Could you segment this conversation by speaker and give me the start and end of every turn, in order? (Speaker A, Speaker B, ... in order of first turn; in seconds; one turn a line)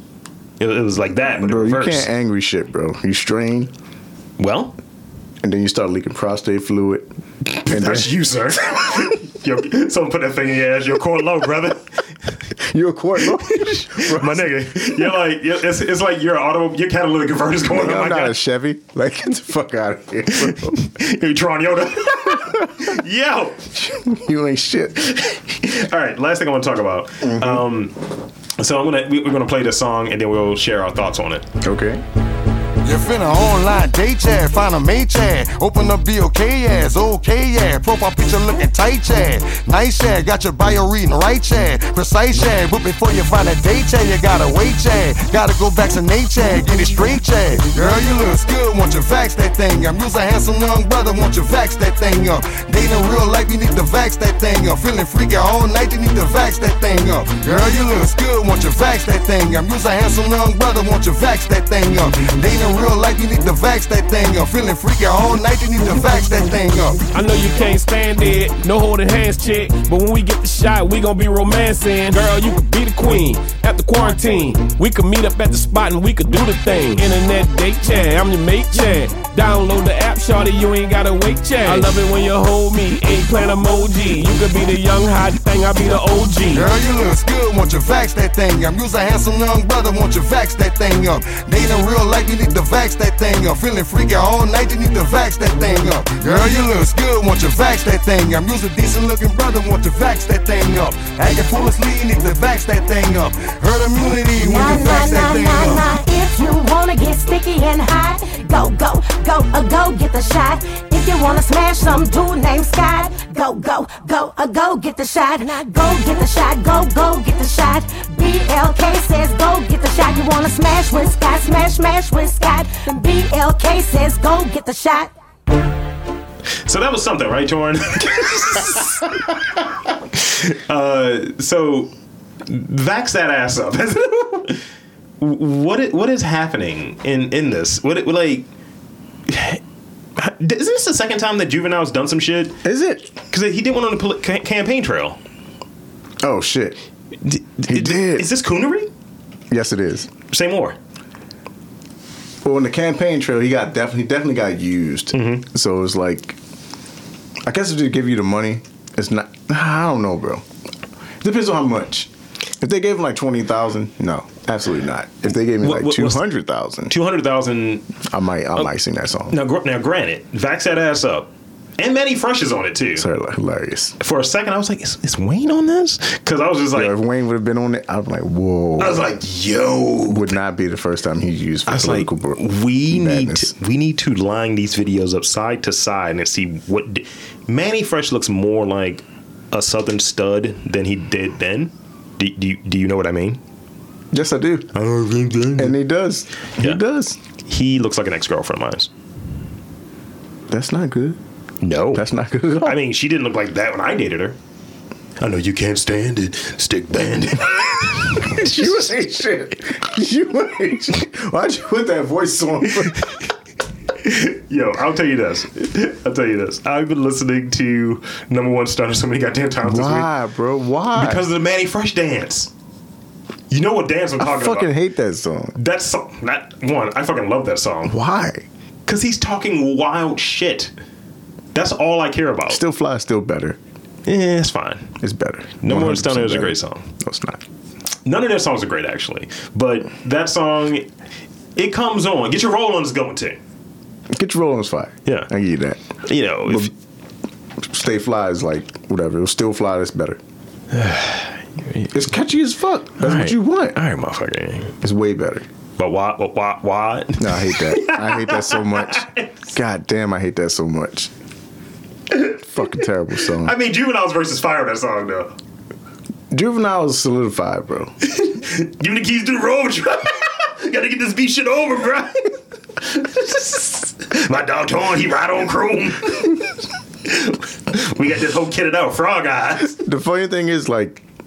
Speaker A: 0.6-2.1
Speaker B: 1.4-3.7
Speaker A: 4.4-4.8
Speaker B: 5.4-7.1
Speaker A: 7.5-11.9
Speaker B: 7.6-8.2
Speaker B: 12.6-14.9
Speaker A: 13.5-18.4
Speaker B: 17.6-20.9
Speaker A: 20.4-23.7
Speaker B: 22.3-22.9
Speaker B: 23.7-25.2
Speaker A: 25.1-28.0
Speaker B: 27.2-27.7
Speaker A: 28.6-31.5
Speaker B: 31.6-32.0
Speaker C: 32.8-67.0
Speaker D: 67.1-86.7
Speaker C: 86.5-105.8
Speaker E: 104.4-125.1
Speaker A: 126.7-129.3
Speaker A: 130.1-131.9
Speaker A: 132.5-134.6
Speaker A: 135.2-138.5
Speaker A: 139.3-139.6
Speaker A: 140.2-142.6
Speaker B: 142.6-143.2
Speaker A: 143.3-145.2
Speaker B: 146.2-146.8
Speaker A: 147.2-148.9
Speaker B: 147.7-148.3
Speaker B: 149.5-150.1
Speaker A: 150.3-150.8
Speaker B: 152.4-156.4
Speaker A: 155.1-155.5
Speaker B: 157.4-160.4
Speaker B: 161.2-166.9
Speaker A: 165.6-166.3
Speaker A: 166.9-167.9
Speaker B: 168.1-169.4
Speaker A: 169.3-173.1
Speaker B: 173.0-173.9
Speaker A: 174.0-176.9
Speaker B: 176.7-179.1
Speaker A: 178.8-180.3
Speaker B: 180.1-183.5
Speaker A: 181.7-193.4
Speaker B: 194.1-194.7
Speaker A: 194.7-195.8
Speaker B: 195.6-197.2
Speaker A: 197.5-198.9
Speaker B: 200.5-201.2
Speaker A: 201.6-202.1
Speaker B: 201.9-202.8
Speaker A: 202.6-204.4
Speaker A: 205.2-208.9
Speaker B: 208.3-213.1
Speaker A: 214.0-220.1
Speaker B: 219.6-221.3
Speaker A: 220.9-222.5
Speaker A: 223.5-224.7
Speaker B: 224.2-225.6
Speaker A: 225.6-228.0
Speaker B: 227.9-228.5
Speaker A: 228.9-230.7
Speaker A: 231.5-232.6
Speaker B: 232.5-233.6
Speaker A: 234.1-235.0
Speaker B: 235.0-237.4
Speaker A: 235.6-236.9
Speaker A: 238.1-240.9
Speaker A: 241.6-243.4
Speaker B: 244.1-245.8
Speaker A: 246.0-246.7
Speaker B: 246.4-246.7
Speaker B: 247.6-250.2
Speaker A: 250.7-252.1
Speaker B: 251.9-253.8
Speaker A: 253.0-254.8
Speaker B: 254.8-255.4
Speaker A: 255.8-259.6
Speaker B: 257.2-261.1
Speaker B: 262.3-263.6
Speaker A: 263.4-265.4
Speaker B: 266.3-267.9
Speaker A: 268.0-279.8
Speaker B: 279.7-281.0